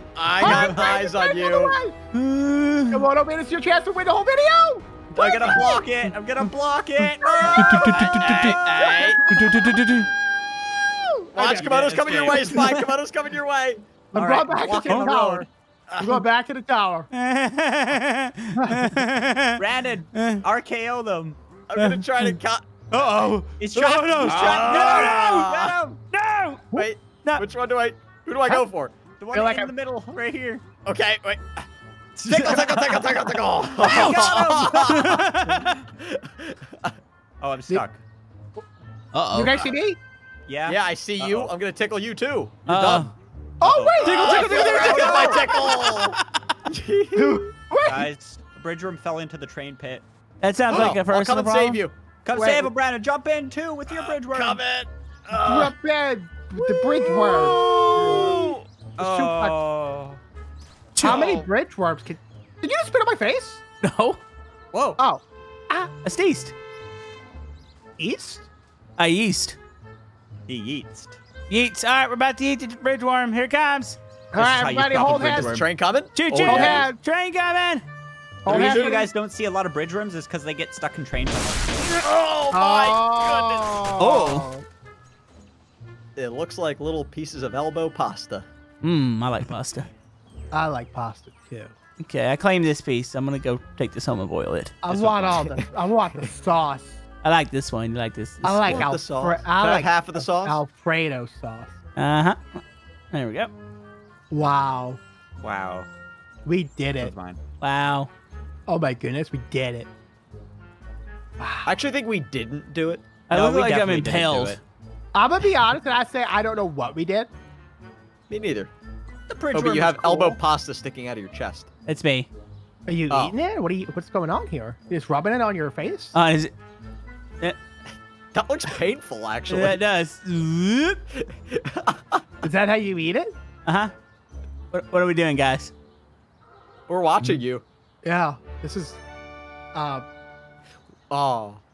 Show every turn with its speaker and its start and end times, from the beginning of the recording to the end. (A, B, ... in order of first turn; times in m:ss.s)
0:00.2-0:01.8 A
0:00.4-0:02.0 B
0:00.4-0:00.9 C
0:02.1-0:03.0 D
0:02.9-0:05.0 B
0:05.1-0:08.5 C
0:05.2-0:05.9 A
0:07.2-0:09.5 B
0:07.4-0:09.8 A
0:07.6-0:08.6 D
0:09.3-0:10.1 D
0:10.8-0:11.8 B
0:11.3-0:16.2 A
0:11.5-0:12.9 C
0:14.1-0:15.5 B
0:16.0-0:17.1 B
0:17.1-0:19.6 D
0:18.6-0:18.9 B
0:19.6-0:21.4 C
0:20.1-0:20.4 D
0:21.7-0:23.2 A
0:21.7-0:22.4 D
0:22.9-0:26.0 C
0:22.9-0:25.5 D
0:24.2-0:25.8 A
0:26.1-0:27.4 D
0:26.7-0:28.9 A
0:29.2-0:30.6 C
0:29.3-0:29.7 B
0:30.8-0:31.5 A
0:32.2-0:33.2 C
0:32.3-0:35.3 A
0:33.8-0:35.6 C
0:33.8-0:35.8 D
0:36.0-0:36.9 A
0:37.4-0:38.0 C
0:39.1-0:39.6 D
0:39.3-0:40.0 B
0:40.5-0:41.5 C
0:40.6-0:43.1 A
0:42.6-0:43.1 D
0:43.6-0:45.8 B
0:43.6-0:45.5 C
0:44.0-0:47.4 A
0:44.0-0:46.1 D
0:47.1-0:48.1 B
0:47.8-0:50.0 C
0:50.4-0:51.8 D
0:50.7-0:51.9 A
0:52.2-0:54.6 C
0:52.3-0:52.7 B
0:53.9-0:55.7 A
0:55.4-0:58.4 B
0:57.5-0:58.3 A
0:57.8-0:58.5 D
0:57.9-1:00.2 C
0:59.0-0:59.6 B
1:00.9-1:01.3 D
1:01.0-1:03.6 B
1:01.0-1:01.5 A
1:03.8-1:04.2 D
1:05.0-1:05.9 B
1:06.0-1:06.5 D
1:08.0-1:08.5 B
1:09.0-1:09.6 D
1:10.5-1:11.2 C
1:11.5-1:14.0 D
1:14.3-1:15.6 B
1:14.4-1:15.6 C
1:15.3-1:16.8 A
1:16.1-1:17.8 D
1:16.4-1:17.0 B
1:18.4-1:19.1 B
1:18.4-1:21.8 C
1:18.5-1:19.0 A
1:22.0-1:23.7 A
1:22.5-1:24.6 B
1:24.0-1:24.5 D
1:26.2-1:28.4 A
1:28.8-1:29.9 D
1:30.5-1:31.7 B
1:32.0-1:34.8 D
1:34.8-1:37.0 B
1:35.1-1:35.5 C
1:35.2-1:35.5 A
1:37.2-1:38.8 D
1:38.4-1:41.7 B
1:38.6-1:40.6 A
1:42.0-1:42.6 D
1:43.1-1:43.5 D
1:44.3-1:45.0 B
1:45.4-1:45.9 C
1:46.4-1:47.1 B
1:47.0-1:47.4 C
1:47.6-1:48.1 D
1:48.7-1:49.9 B
1:51.4-1:51.7 B
1:51.6-1:53.0 A
1:53.3-1:54.6 D
1:53.3-1:54.6 C
1:55.1-1:57.3 B
1:58.3-1:58.7 A
1:59.3-2:00.4 C
1:59.5-2:01.7 A
2:01.8-2:02.3 D
2:02.9-2:06.1 B
2:06.1-2:06.5 D
2:08.3-2:09.8 A
2:09.5-2:11.0 D
2:11.4-2:12.2 A
2:12.4-2:13.3 B
2:13.6-2:13.9 D
2:14.7-2:15.7 D
2:16.9-2:17.6 A
2:18.0-2:19.0 B
2:19.7-2:20.0 B
2:21.1-2:21.6 A